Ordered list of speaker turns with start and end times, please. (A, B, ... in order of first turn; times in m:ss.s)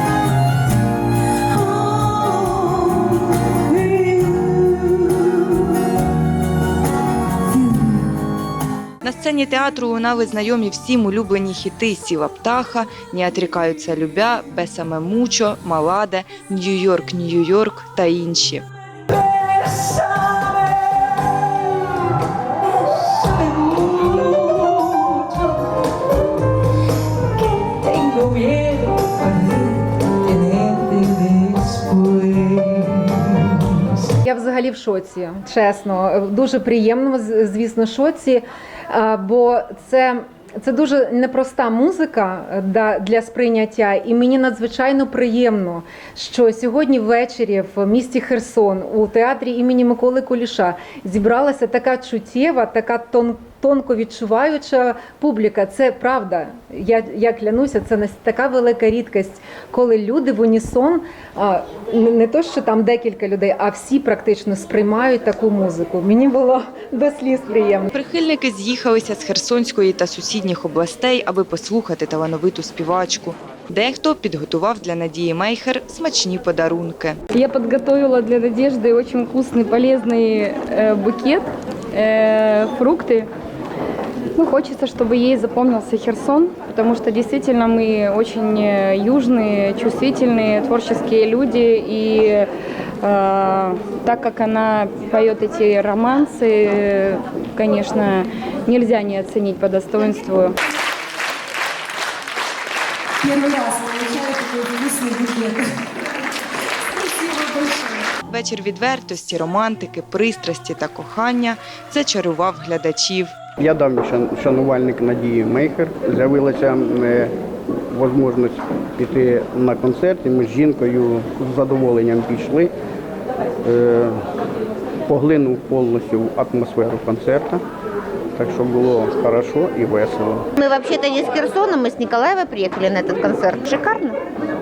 0:02.2-0:02.5 A
0:09.0-0:18.6 B
0:19.9-0:20.4 C
0:23.2-0:25.1 A
0:23.4-0:24.8 C
0:27.6-0:29.0 A
0:28.5-0:29.5 C
0:30.3-0:31.0 A
0:30.4-0:33.2 C
0:31.6-0:32.6 A
0:34.2-1:07.9 D
1:07.9-1:17.2 B
1:17.3-1:23.3 A
1:24.3-1:40.6 A
1:43.2-1:45.6 C
1:47.1-1:48.0 C
1:48.3-1:53.3 B
1:53.6-1:57.3 E
1:57.9-2:02.7 E
2:03.6-2:04.2 E
2:05.1-2:07.6 E
2:08.4-2:10.5 E
2:10.6-2:14.2 F